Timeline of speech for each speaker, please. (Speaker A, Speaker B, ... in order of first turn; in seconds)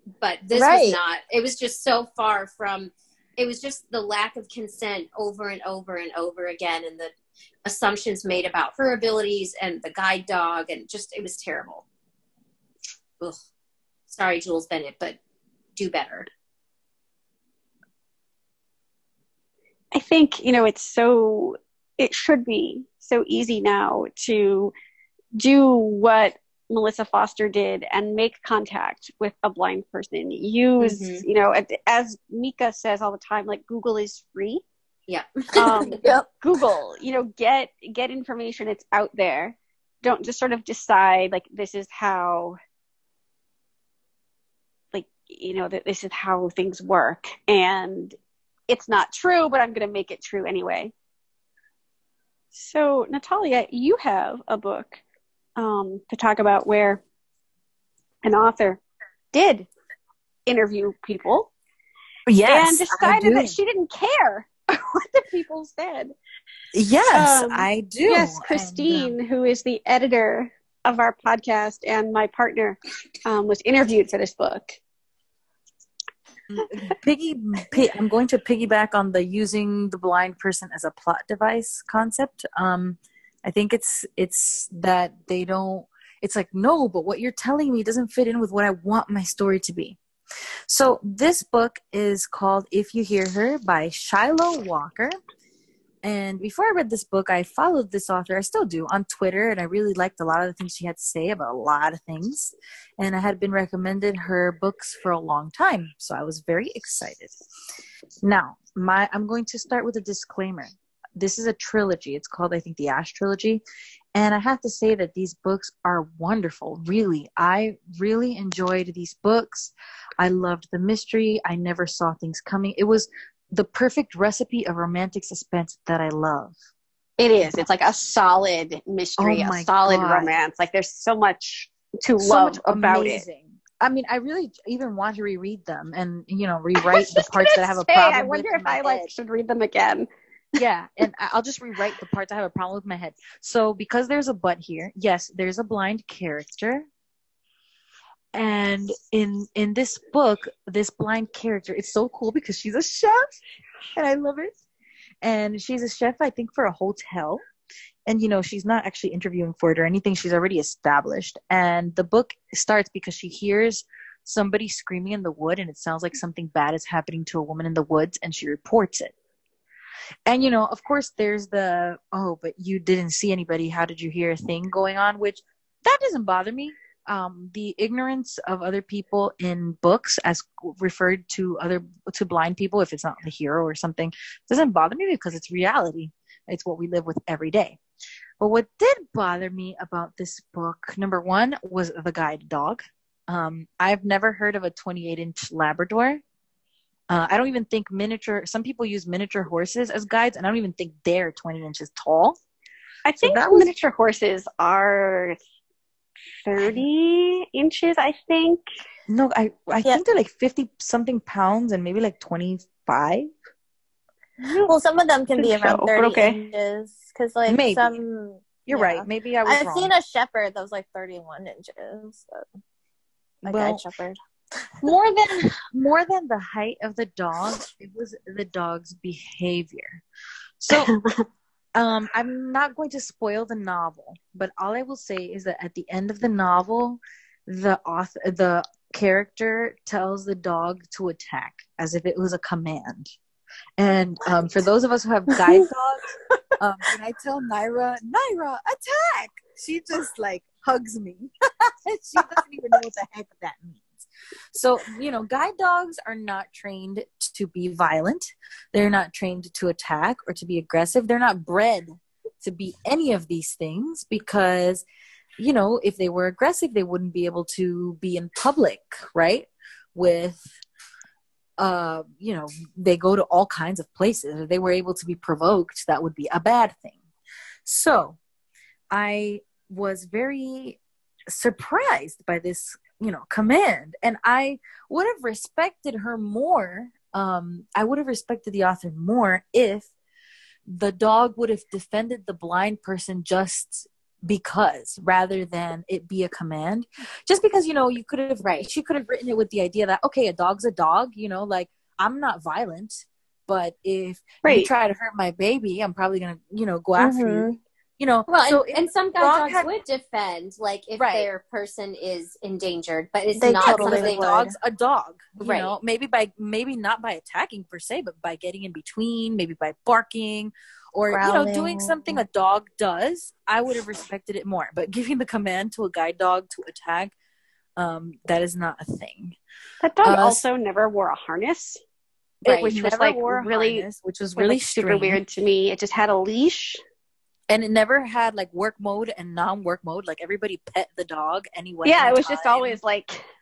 Speaker A: 0.2-7.1, 7.7-11.8, 14.1-15.2, 15.8-16.3, 30.8-31.2, 35.1-36.2, 298.4-298.7, 308.3-314.4, 315.4-315.7
Speaker B: 0.5-1.0, 214.7-222.5, 223.4-224.2, 307.0-307.6, 313.4-314.5, 321.1-322.2
Speaker C: 19.9-24.7, 25.4-34.6, 35.6-42.6, 44.9-48.2, 48.7-50.9, 52.5-55.0, 55.6-57.0, 58.2-58.8, 59.3-59.7, 60.5-61.5, 62.5-66.1, 67.0-74.8, 127.2-133.2, 136.8-140.1, 203.1-205.4, 206.4-208.6, 214.4-214.7, 215.4-216.4, 230.7-231.2, 304.4-304.7, 329.8-331.8, 332.4-336.8, 341.8-343.3
Speaker D: 62.3-63.6, 66.7-69.2, 76.5-90.0, 90.7-95.2, 96.0-107.4, 108.2-113.6, 114.2-126.5, 129.2-130.4, 132.2-139.1, 140.6-146.9, 148.3-153.4, 153.9-154.5, 155.2-157.4, 158.1-169.1, 170.3-187.8, 188.4-196.2, 197.1-202.4, 203.2-203.7, 209.1-213.3, 217.5-217.9, 218.7-219.9, 223.4-223.8, 224.8-230.0, 230.6-230.9, 231.8-243.1, 243.8-264.9, 265.4-270.5, 271.6-277.0, 277.6-278.2, 278.9-280.8, 281.3-289.9, 290.7-307.5, 308.0-309.7, 311.0-311.3, 313.6-327.1, 327.8-329.4, 330.0-330.4, 332.4-335.2, 337.5-342.8